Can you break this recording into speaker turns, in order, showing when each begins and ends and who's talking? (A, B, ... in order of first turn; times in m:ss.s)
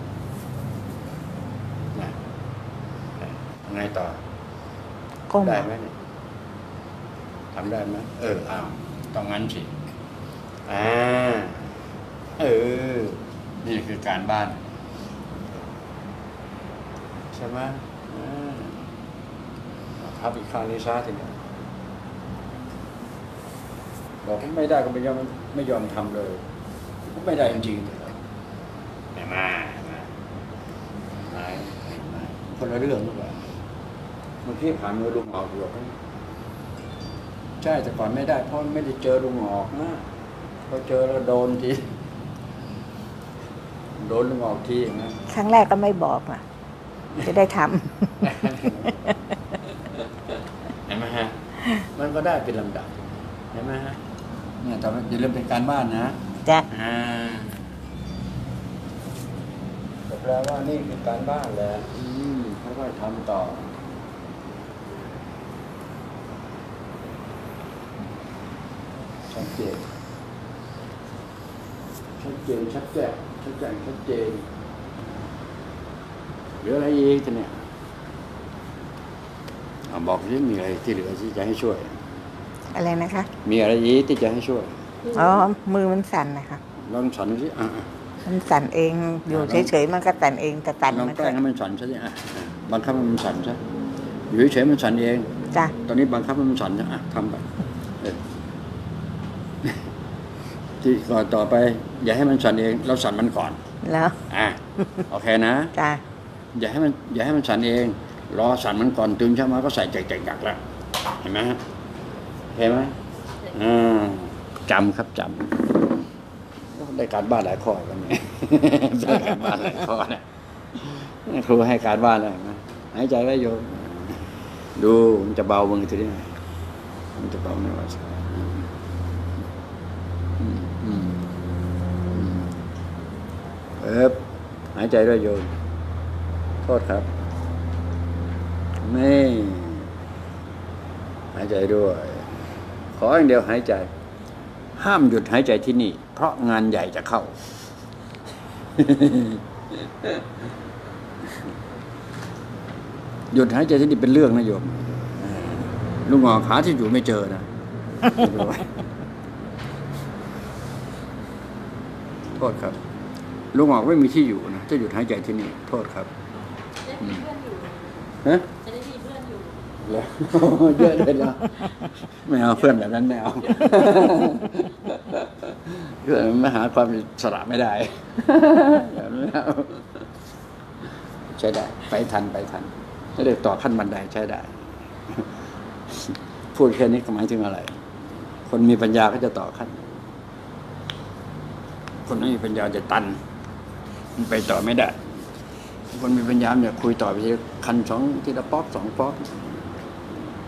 0:03.2-0:04.2 A
0:05.3-0:05.7 B
0:05.4-0:06.0 A
0:07.5-0:09.8 A
0:10.7-0:11.7 A
0:12.4-0:14.7 A
0:17.3-0:18.8 A
0:20.0-0:21.4 A
0:24.2-0:26.4 A
0:27.1-0:28.2 A
0:29.2-0:30.1 A
0:31.1-0:33.5 A
0:34.4-0:36.0 A
0:37.6-0:40.0 A
0:40.7-0:41.9 A
0:44.0-0:45.2 A
0:45.3-0:46.4 B
0:47.2-0:48.1 B
0:48.2-0:49.1 A
0:50.9-0:54.0 A
0:54.6-0:57.7 A
1:00.1-1:03.7 A
1:09.3-1:09.9 A
1:12.2-1:14.4 A
1:16.6-1:17.6 A
1:19.9-1:22.0 A
1:22.7-1:23.3 B
1:23.4-1:24.8 A
1:25.1-1:26.6 B
1:26.8-1:27.9 A
1:28.2-1:31.4 B
1:29.3-1:29.7 A
1:30.9-1:33.6 A
1:34.3-1:37.5 A
1:38.0-1:38.3 A
1:40.8-1:43.6 A
1:43.8-1:44.2 B
1:44.3-1:45.7 A
1:45.8-1:46.0 B
1:46.5-1:50.6 A
1:51.2-1:51.6 A
1:52.5-1:53.0 A
1:53.5-1:55.8 A
1:56.7-2:00.2 A
2:00.8-2:06.4 A
2:07.2-2:08.7 A
2:10.4-2:11.3 A
2:12.1-2:12.6 A
2:13.8-2:14.2 A
2:14.8-2:15.5 A
2:16.6-2:17.1 A
2:18.8-2:19.9 A
2:21.3-2:22.4 A
2:22.9-2:23.9 A
2:24.8-2:27.5 A
2:28.8-2:30.2 A
2:33.3-2:37.5 A
2:38.0-2:38.8 A
2:42.3-2:42.8 A
2:43.5-2:46.1 A
2:46.8-2:49.6 C
2:49.8-3:00.1 A
2:53.4-2:53.9 C
3:01.4-3:04.5 A
3:05.9-3:07.8 A
3:08.5-3:09.9 A
3:12.1-3:13.2 A
3:14.2-3:15.1 A
3:15.9-3:19.7 A